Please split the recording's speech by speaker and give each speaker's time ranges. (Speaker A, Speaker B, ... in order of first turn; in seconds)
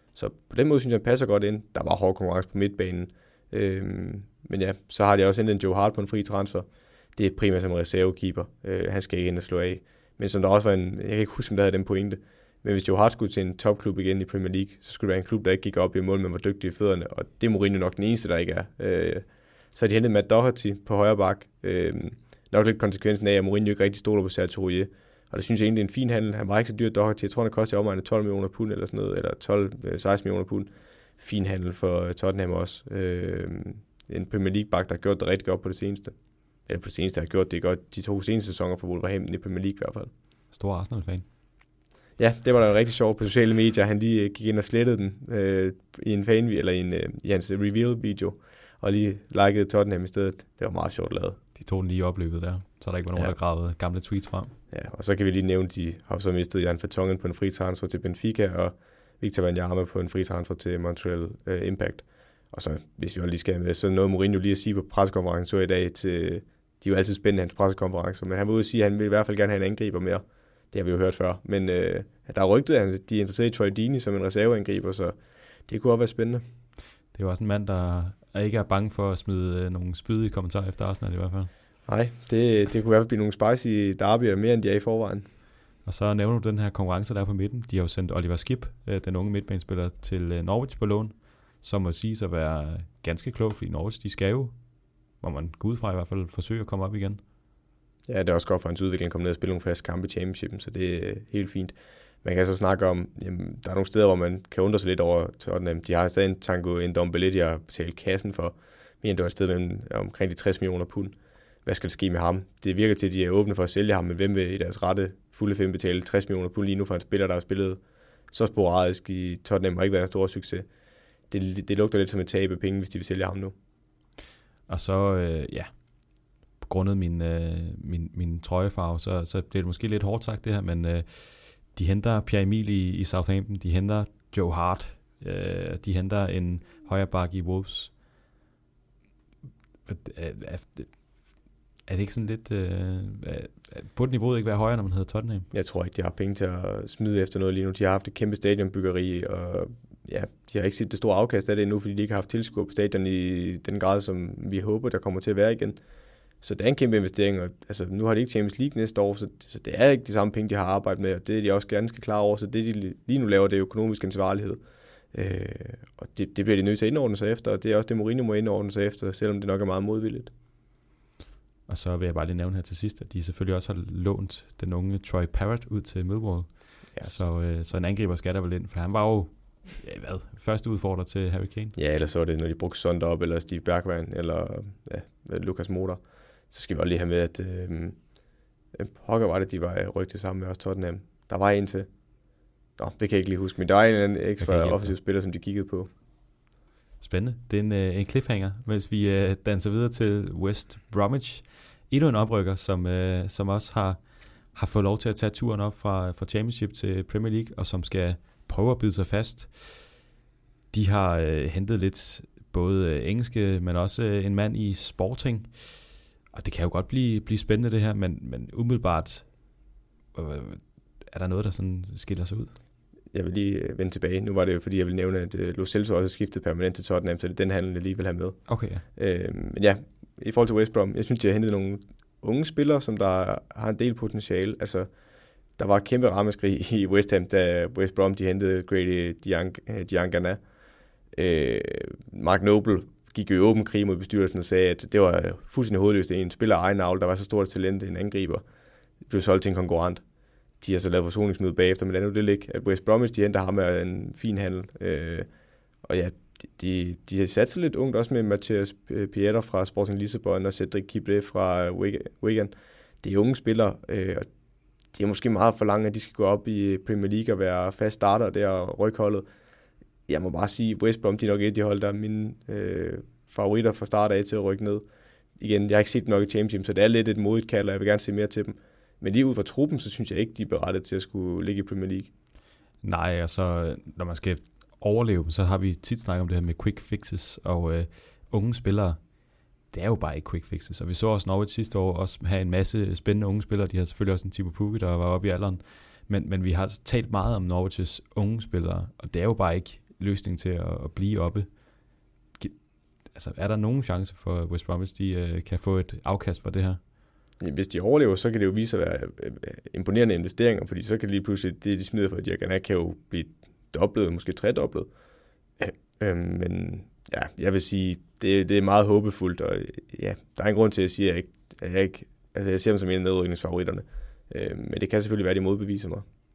Speaker A: 0.1-36.1, 36.7-40.1, 42.2-51.4, 54.7-75.2, 75.7-76.4, 81.9-85.3, 98.1-111.1, 111.7-117.8, 118.3-120.7, 121.3-123.5, 145.5-155.8, 156.4-164.6, 165.1-170.3, 181.8-188.0, 188.7-191.9, 192.8-195.9, 223.1-234.9, 235.6-240.4, 241.1-248.4, 249.1-250.0, 250.6-255.3, 255.8-264.3, 264.9-269.2, 270.1-274.8, 275.4-282.1, 307.4-314.9, 315.6-326.1
Speaker B: 40.5-41.2, 51.6-54.5, 77.1-81.5, 85.8-94.5, 95.2-97.2, 124.7-125.7, 126.6-137.9, 139.9-140.9, 141.9-145.5, 171.7-181.8, 194.4-194.9, 197.0-204.0, 204.5-210.0, 210.7-219.3, 220.1-222.5, 228.5-228.8, 282.8-289.0, 289.7-301.5, 303.1-306.8